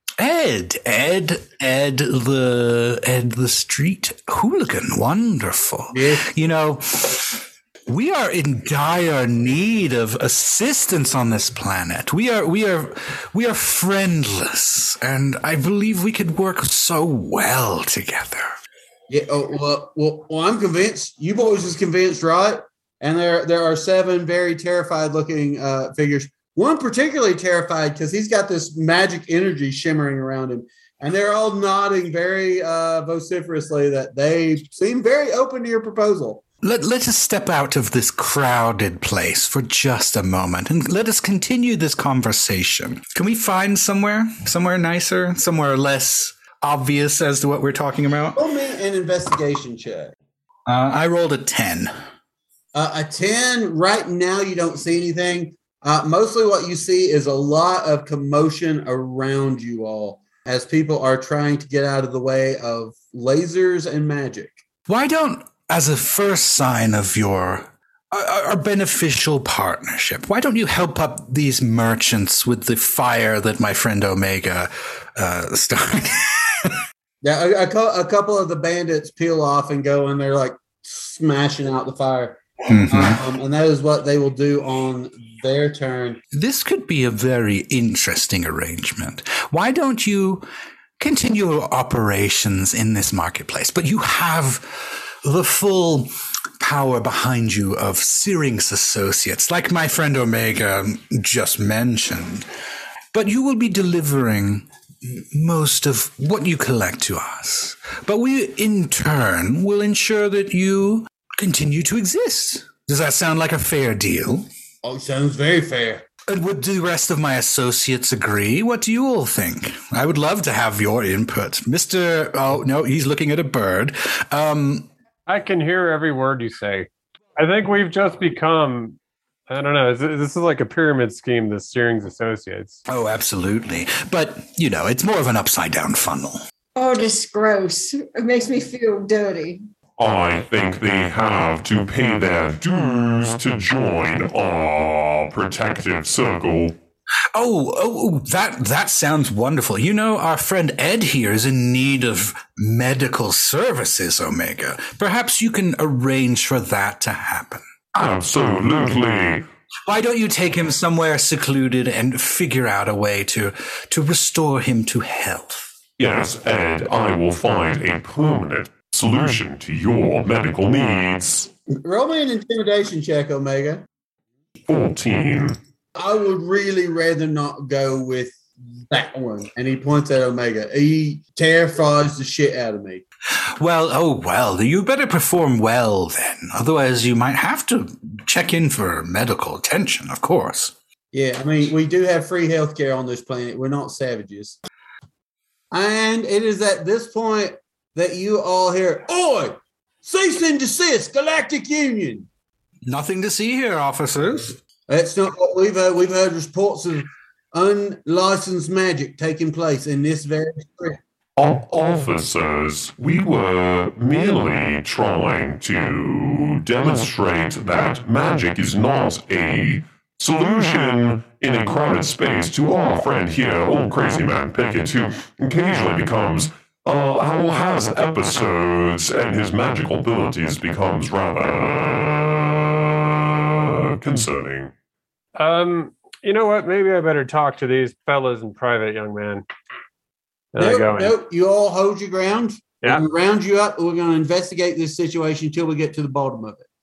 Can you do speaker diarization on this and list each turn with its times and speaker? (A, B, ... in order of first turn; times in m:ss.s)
0:00.2-0:18.5 A
0:05.9-0:06.3 B
0:19.1-0:36.4 B
0:36.6-0:48.4 A
0:48.4-0:50.1 B
0:50.7-0:51.9 A
0:52.7-1:04.6 B
1:04.9-1:16.8 A
1:17.2-1:26.2 B
1:22.7-1:23.2 A
1:26.3-1:30.4 A
1:31.0-1:42.5 A
1:43.1-1:54.5 A
1:54.8-1:56.0 B
1:56.3-2:04.9 A
2:05.3-2:09.0 C
2:09.5-2:12.8 C
2:12.9-2:16.4 A
2:16.7-2:19.6 D
2:20.0-2:26.8 E
2:27.3-2:37.6 A
2:37.9-2:39.4 E
2:39.9-2:45.7 A
2:46.0-2:51.5 E
2:51.8-2:53.8 B
2:54.7-2:55.6 E
2:55.9-2:58.4 B
2:58.9-3:03.0 B
3:03.6-3:10.7 A
3:11.1-3:14.6 B
3:15.7-3:22.3 B
3:22.9-3:24.6 A
3:24.9-3:31.0 B
3:31.4-3:54.7 E
3:55.4-3:59.4 C
4:00.5-4:01.1 C
4:00.6-4:06.7 B